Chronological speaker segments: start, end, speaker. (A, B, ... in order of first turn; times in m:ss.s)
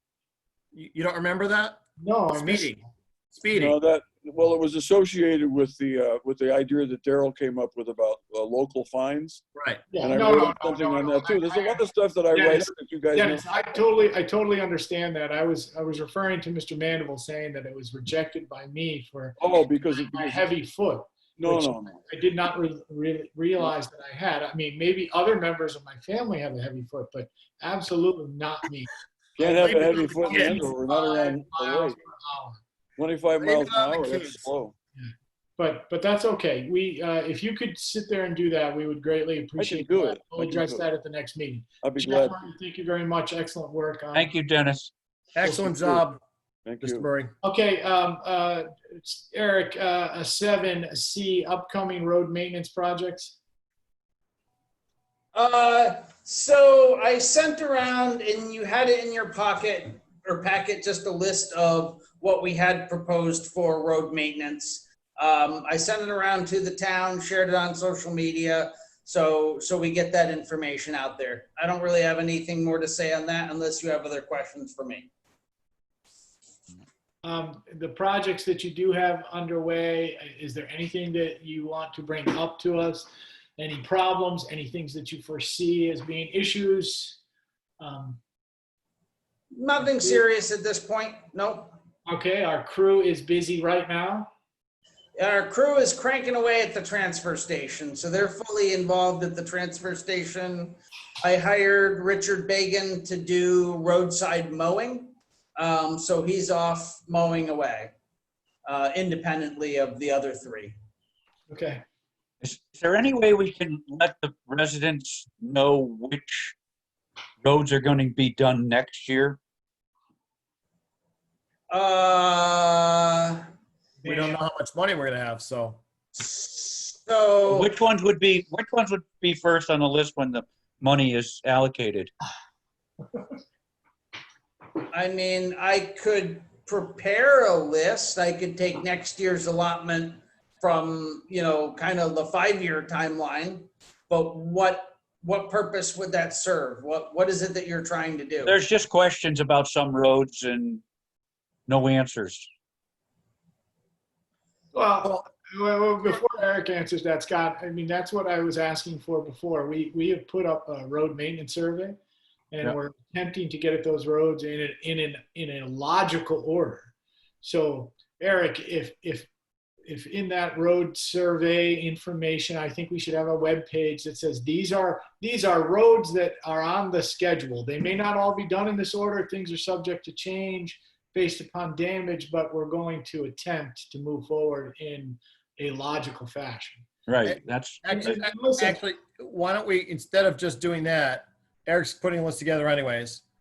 0:00.7-0:01.8 A
0:02.0-0:02.8 B
0:02.3-0:02.8 A
0:03.3-0:03.7 A
0:03.5-0:09.4 C
0:09.5-0:09.8 A
0:09.9-0:28.9 B
0:10.0-0:13.8 C
0:19.4-0:20.5 C
0:21.4-0:22.0 C
0:29.4-0:32.0 C
0:29.4-0:30.7 A
0:29.6-0:32.6 B
0:33.0-0:34.7 C
0:33.4-0:34.4 A
0:35.0-0:44.4 B
0:39.6-0:40.8 C
0:41.8-0:42.4 C
0:44.1-0:44.9 D
0:45.3-0:46.2 A
0:45.4-0:46.0 C
0:46.6-0:47.0 C
0:46.8-0:47.3 A
0:47.4-0:53.4 B
0:55.3-1:15.1 E
1:17.2-1:27.2 B
1:27.8-1:28.2 B
1:29.5-1:31.8 E
1:32.0-1:34.3 B
1:35.2-1:47.9 E
1:48.6-1:50.8 E
1:51.5-1:51.8 B
1:52.4-1:56.5 D
1:57.4-1:59.4 D
2:01.7-2:03.4 E
2:04.0-2:04.4 B
2:04.0-2:05.8 A
2:06.1-2:07.7 E
2:07.5-2:12.1 D
2:14.9-2:28.6 E
2:28.4-2:30.8 D
2:31.7-2:32.5 D
2:34.7-2:42.0 B
2:42.5-2:49.3 B
2:49.8-3:06.8 B
3:07.1-3:08.1 D
3:07.2-3:13.2 A
3:07.9-3:08.8 B